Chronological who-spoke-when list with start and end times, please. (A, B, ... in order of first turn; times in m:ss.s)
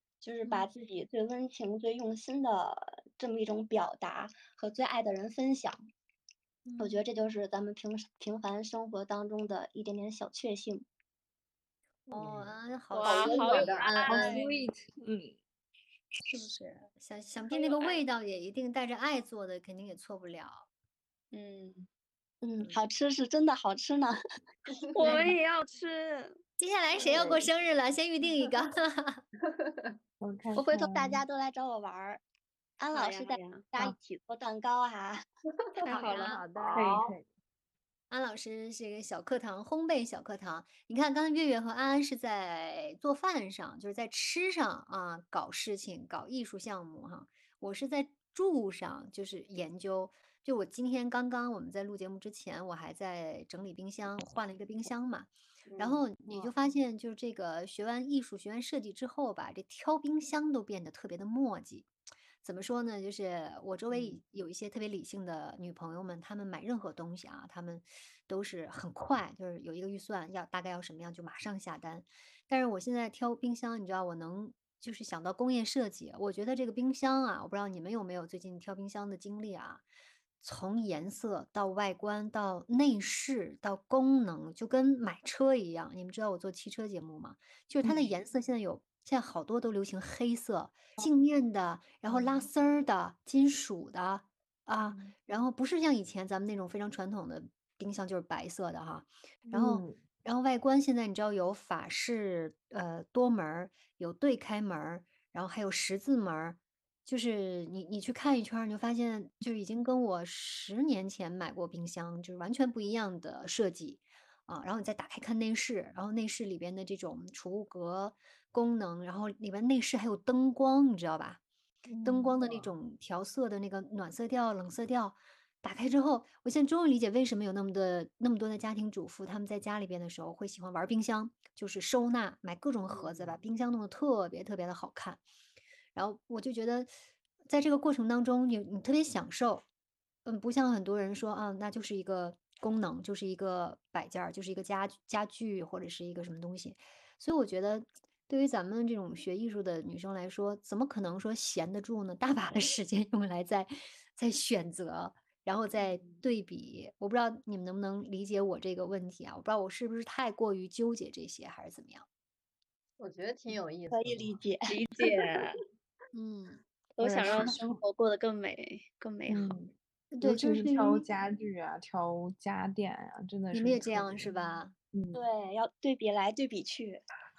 0:00.2-0:05.8 A
0:06.7-0:07.0 B
0:06.8-0:10.9 A
0:12.1-0:13.6 B
0:12.2-0:12.5 C
0:12.9-0:14.6 D
0:13.0-0:14.4 C
0:13.1-0:14.2 A
0:14.1-0:15.4 E
0:16.3-0:20.7 B
0:17.5-0:18.0 D
0:22.4-0:24.2 A
0:24.9-0:26.4 D
0:25.0-0:25.3 A
0:26.6-0:29.2 B
0:27.1-0:27.4 D
0:29.4-0:30.0 C
0:30.2-0:31.2 E
0:30.6-0:32.2 A
0:32.8-0:35.2 A
0:32.9-0:33.7 D
0:35.8-0:37.0 D
0:35.9-0:36.8 B
0:36.7-0:37.3 E
0:38.1-1:01.9 B
0:55.7-0:56.0 A
1:02.4-1:19.8 B
1:20.4-2:01.4 B
1:32.1-1:32.4 E
1:39.5-1:39.9 E
2:02.0-2:02.3 E
2:02.0-2:15.2 B
2:02.4-2:02.7 C
2:12.9-2:13.4 C
2:16.0-2:16.9 B
2:17.4-2:19.6 B
2:20.3-2:42.1 B
2:35.8-2:36.2 C
2:43.0-2:44.4 C
2:43.9-2:44.8 A
2:44.7-2:45.6 D
2:46.1-2:47.6 B
2:47.0-2:49.6 D
2:49.3-2:54.3 E
2:50.1-2:51.0 B
2:53.5-2:54.7 B
2:54.9-2:55.2 E
2:55.1-2:57.0 A